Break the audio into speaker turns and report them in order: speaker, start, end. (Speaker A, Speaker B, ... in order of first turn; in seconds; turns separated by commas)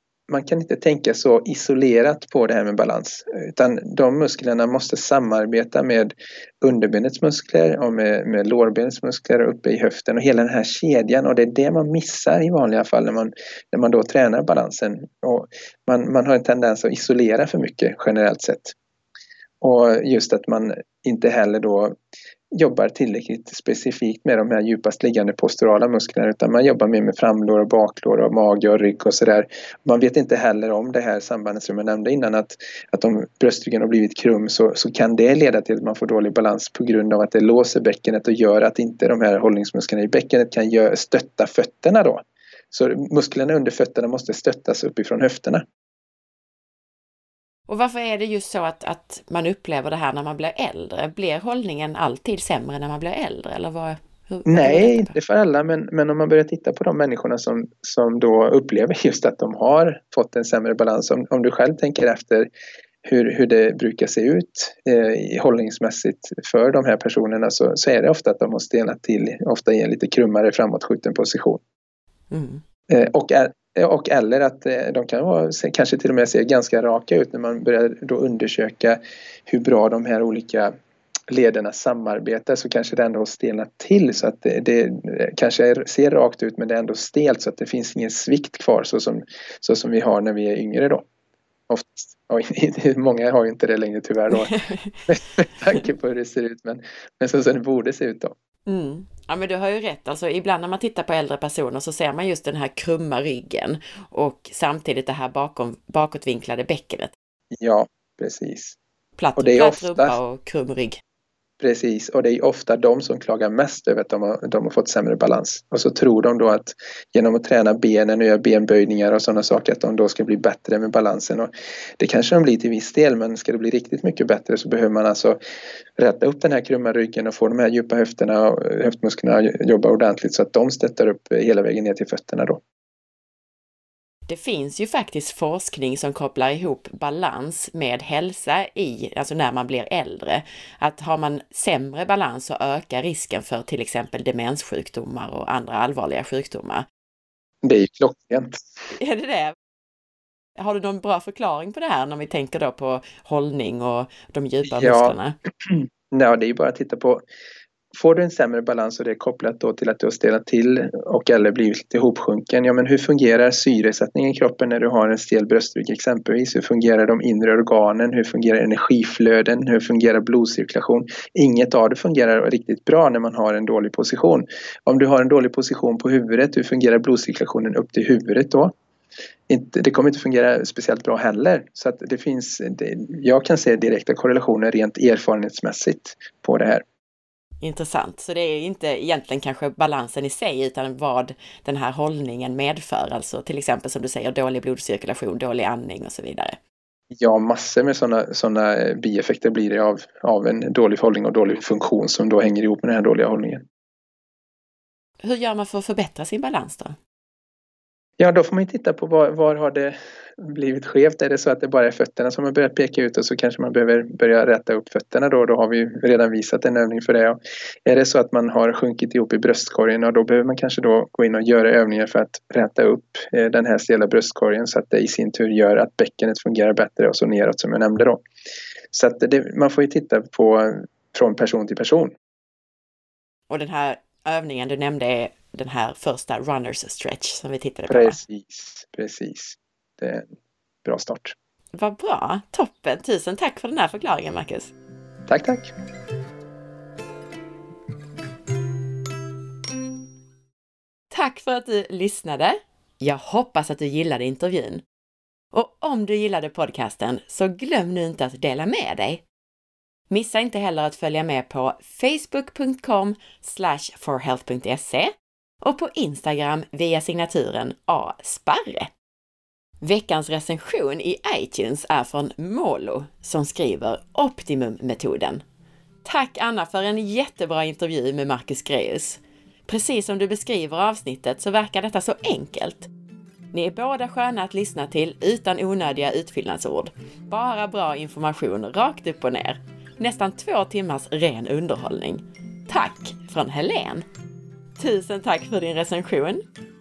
Speaker A: 0.3-18.7, Speaker A: 19.6-21.9, Speaker A: 22.5-45.6, Speaker B: 47.7-55.1, Speaker A: 54.5-62.5, Speaker A: 63.0-71.6, Speaker B: 72.3-72.6, Speaker A: 72.9-80.7, Speaker A: 81.3-91.0, Speaker A: 91.7-94.5, Speaker B: 94.3-95.0, Speaker A: 95.1-98.3, Speaker B: 98.7-107.1, Speaker A: 107.6-108.8, Speaker B: 109.2-111.0, Speaker A: 109.3-110.2, Speaker A: 111.6-125.4, Speaker A: 126.0-132.6, Speaker B: 134.3-146.8, Speaker A: 147.6-148.6, Speaker B: 148.9-149.5, Speaker B: 150.6-155.3, Speaker A: 154.7-157.2, Speaker A: 157.9-178.7, Speaker A: 179.5-186.8, Speaker B: 187.6-196.6, Speaker A: 197.1-203.6, Speaker B: 205.2-206.9, Speaker A: 208.2-228.2, Speaker A: 228.9-232.1, Speaker B: 233.5-238.2, Speaker A: 237.9-241.3, Speaker B: 241.7-244.7, Speaker A: 245.3-245.7, Speaker B: 251.1-254.8, Speaker B: 255.5-259.2, Speaker B: 260.1-265.1, Speaker B: 265.6-268.9, Speaker B: 269.8-275.4, Speaker B: 276.0-282.9, Speaker B: 283.5-294.1, Speaker B: 294.8-296.4